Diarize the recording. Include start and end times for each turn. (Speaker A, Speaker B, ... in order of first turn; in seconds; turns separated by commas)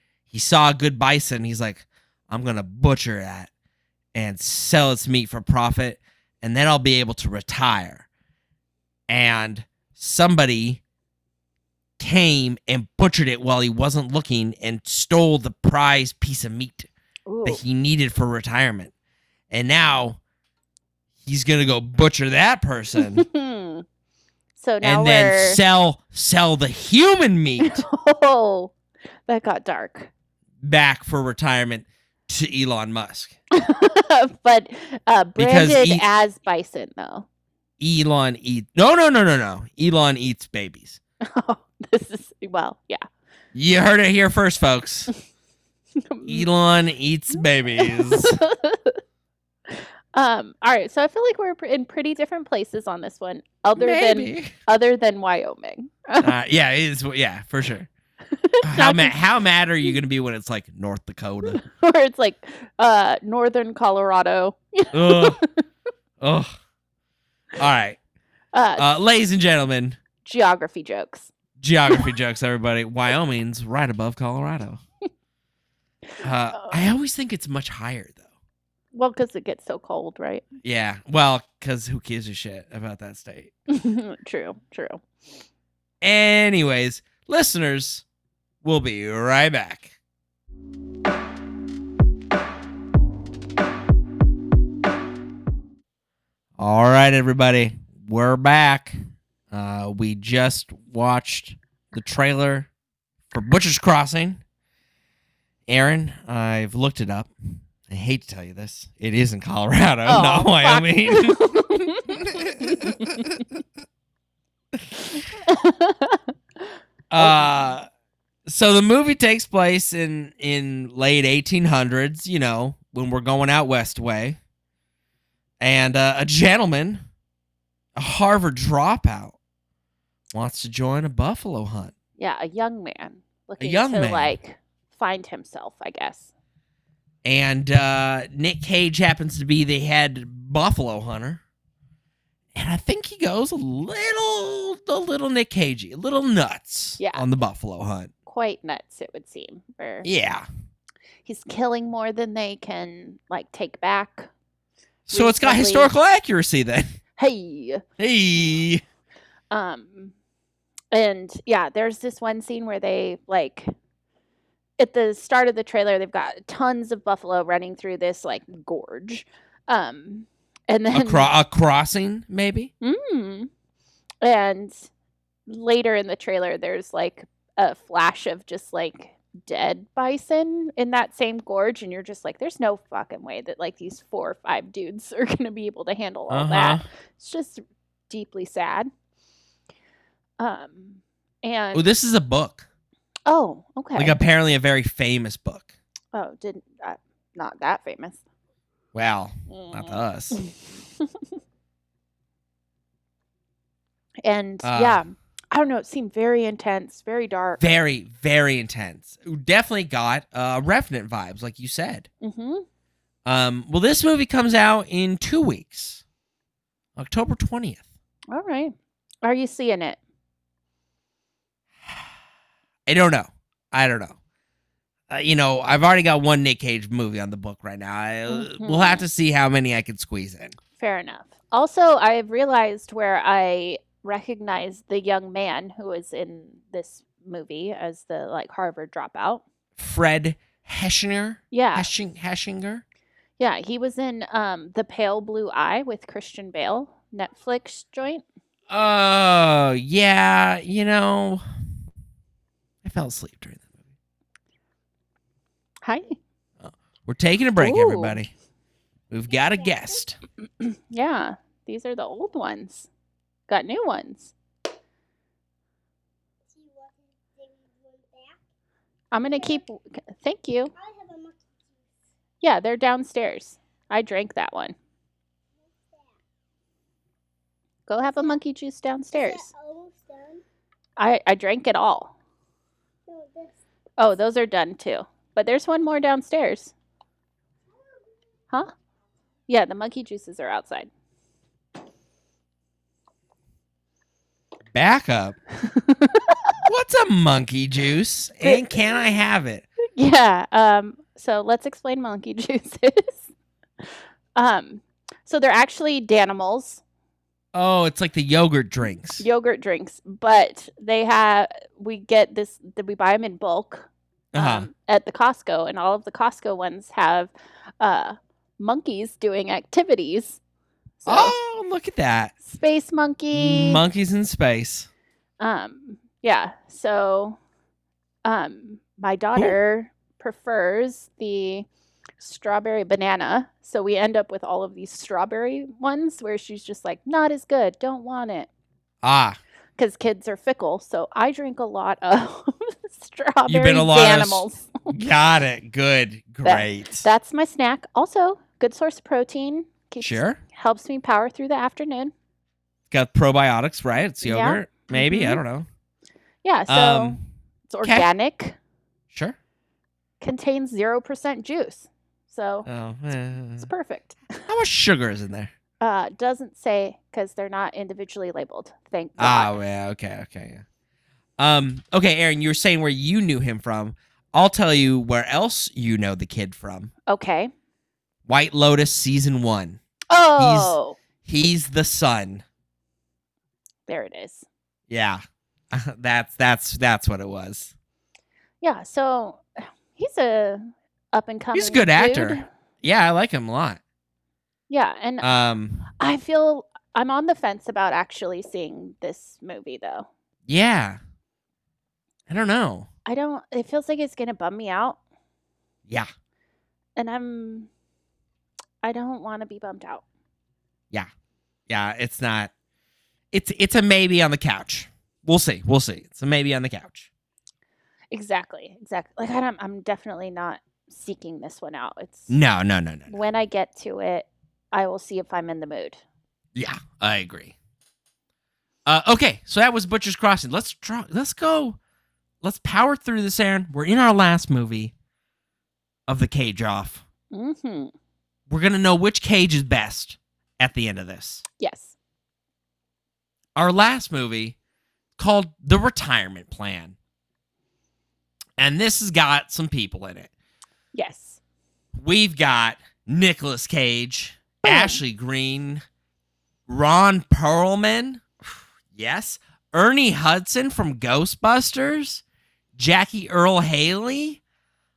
Speaker A: 0.3-3.5, Speaker A: 4.1-8.1, Speaker A: 9.1-10.8, Speaker A: 12.0-16.9, Speaker B: 17.3-17.6, Speaker A: 17.4-18.9, Speaker A: 19.5-20.2, Speaker A: 21.2-23.3, Speaker B: 23.0-23.9, Speaker B: 24.6-25.6, Speaker A: 24.8-27.9, Speaker B: 27.6-28.7, Speaker B: 29.3-30.1, Speaker A: 30.6-33.4, Speaker B: 33.5-37.3, Speaker A: 35.4-36.0, Speaker A: 37.8-41.0, Speaker B: 41.2-43.0, Speaker A: 43.5-45.1, Speaker B: 46.0-46.5, Speaker A: 46.3-48.4, Speaker B: 47.8-49.0, Speaker B: 49.7-56.3, Speaker A: 53.8-54.5, Speaker A: 56.2-57.9, Speaker B: 58.3-59.2, Speaker A: 58.6-61.6, Speaker B: 61.5-65.6, Speaker A: 64.9-65.4, Speaker A: 66.2-66.6, Speaker A: 67.6-68.0, Speaker B: 68.5-68.9, Speaker A: 68.8-70.0, Speaker B: 70.2-71.3, Speaker A: 71.6-74.8, Speaker B: 76.2-76.8, Speaker A: 76.2-78.2, Speaker B: 78.9-80.5, Speaker A: 80.6-83.5, Speaker B: 83.7-85.0, Speaker A: 86.0-88.0, Speaker A: 88.6-89.9, Speaker A: 96.6-99.0, Speaker A: 99.5-102.7, Speaker A: 103.3-104.4, Speaker A: 105.7-113.4, Speaker B: 110.1-113.2, Speaker B: 115.3-116.3, Speaker A: 117.1-117.9, Speaker B: 117.2-117.7, Speaker A: 118.5-124.4, Speaker A: 125.6-127.0, Speaker A: 128.0-129.4, Speaker A: 130.3-131.9, Speaker B: 132.2-136.3, Speaker A: 133.6-134.4, Speaker A: 137.2-141.4, Speaker A: 142.6-148.1, Speaker B: 147.0-147.2, Speaker B: 148.3-150.1, Speaker A: 150.0-150.5, Speaker B: 151.2-154.3, Speaker A: 155.1-157.0, Speaker B: 155.1-155.9, Speaker B: 157.2-157.8, Speaker A: 158.0-158.8, Speaker B: 159.5-160.1, Speaker B: 160.9-163.7, Speaker B: 164.8-171.3, Speaker A: 170.9-172.7, Speaker B: 172.8-173.5, Speaker B: 174.2-174.9, Speaker B: 175.5-188.9, Speaker A: 186.3-186.9, Speaker B: 190.4-191.9, Speaker A: 191.7-192.7, Speaker B: 193.3-194.2, Speaker A: 194.0-195.7, Speaker B: 196.1-198.2, Speaker A: 198.9-200.4, Speaker B: 199.5-201.2, Speaker B: 204.2-207.6, Speaker A: 204.6-205.0, Speaker A: 207.6-212.1, Speaker B: 212.2-212.7, Speaker A: 213.2-216.0, Speaker A: 217.0-217.8, Speaker B: 218.3-220.0, Speaker A: 222.9-224.2, Speaker A: 225.1-230.6, Speaker B: 228.3-229.1, Speaker B: 230.8-239.4, Speaker A: 239.8-242.8, Speaker B: 241.5-241.9, Speaker B: 243.4-248.2, Speaker A: 248.7-251.4, Speaker A: 252.8-253.7, Speaker B: 255.8-256.2, Speaker A: 256.6-258.3, Speaker B: 257.6-258.2, Speaker A: 259.1-260.2, Speaker C: 259.3-259.9, Speaker B: 260.6-262.9, Speaker B: 263.5-264.3, Speaker C: 266.5-268.4, Speaker B: 269.1-270.7, Speaker C: 269.3-269.6, Speaker C: 270.8-271.8, Speaker B: 272.4-274.8, Speaker C: 275.7-276.1, Speaker B: 277.9-279.5, Speaker C: 279.2-280.4, Speaker B: 281.0-282.1, Speaker C: 283.1-283.6, Speaker B: 284.0-286.7, Speaker B: 289.5-290.9, Speaker A: 294.7-295.4, Speaker B: 295.6-296.4, Speaker A: 296.6-299.6, Speaker B: 298.4-298.9, Speaker B: 300.0-303.3, Speaker B: 303.8-306.8, Speaker A: 307.5-309.2, Speaker B: 309.2-320.4, Speaker A: 314.3-314.7, Speaker B: 321.0-321.4, Speaker A: 321.1-322.3, Speaker B: 322.4-323.8, Speaker A: 323.3-324.9, Speaker B: 325.4-327.4, Speaker B: 328.2-331.7, Speaker B: 332.2-338.5, Speaker A: 339.0-339.4, Speaker B: 339.8-344.7, Speaker A: 343.5-347.1, Speaker B: 346.4-352.1, Speaker A: 350.0-350.4, Speaker A: 352.9-355.7, Speaker B: 354.2-355.4, Speaker B: 356.4-358.6, Speaker A: 356.7-357.2, Speaker A: 357.8-358.1, Speaker A: 359.1-359.4, Speaker B: 360.2-362.7, Speaker A: 362.7-363.7, Speaker B: 363.6-364.5, Speaker A: 364.5-365.5, Speaker B: 365.8-369.5, Speaker A: 369.2-370.6, Speaker A: 371.4-376.9, Speaker B: 377.1-377.5, Speaker A: 378.3-379.8, Speaker B: 380.1-381.0, Speaker A: 380.4-382.4, Speaker B: 383.9-384.5, Speaker A: 384.9-387.7, Speaker B: 388.6-392.5, Speaker A: 391.5-393.8, Speaker B: 394.7-395.3, Speaker A: 395.2-395.9, Speaker B: 396.0-400.1, Speaker A: 400.5-401.0, Speaker A: 402.3-402.9, Speaker B: 403.1-405.0, Speaker B: 407.0-407.7, Speaker B: 408.8-410.0, Speaker A: 411.7-412.5, Speaker A: 413.3-417.1, Speaker B: 418.1-422.3, Speaker A: 422.3-423.2, Speaker B: 423.1-426.0, Speaker A: 426.6-427.6, Speaker A: 428.9-431.8, Speaker A: 432.4-434.9, Speaker A: 436.1-437.0, Speaker B: 437.3-437.9, Speaker A: 438.5-441.4, Speaker B: 441.6-441.9, Speaker A: 443.6-444.6, Speaker A: 445.2-447.0, Speaker A: 448.6-450.3, Speaker B: 450.9-451.4, Speaker A: 451.9-455.8, Speaker B: 454.6-455.0, Speaker A: 456.7-458.3, Speaker A: 458.9-462.2, Speaker A: 462.8-464.4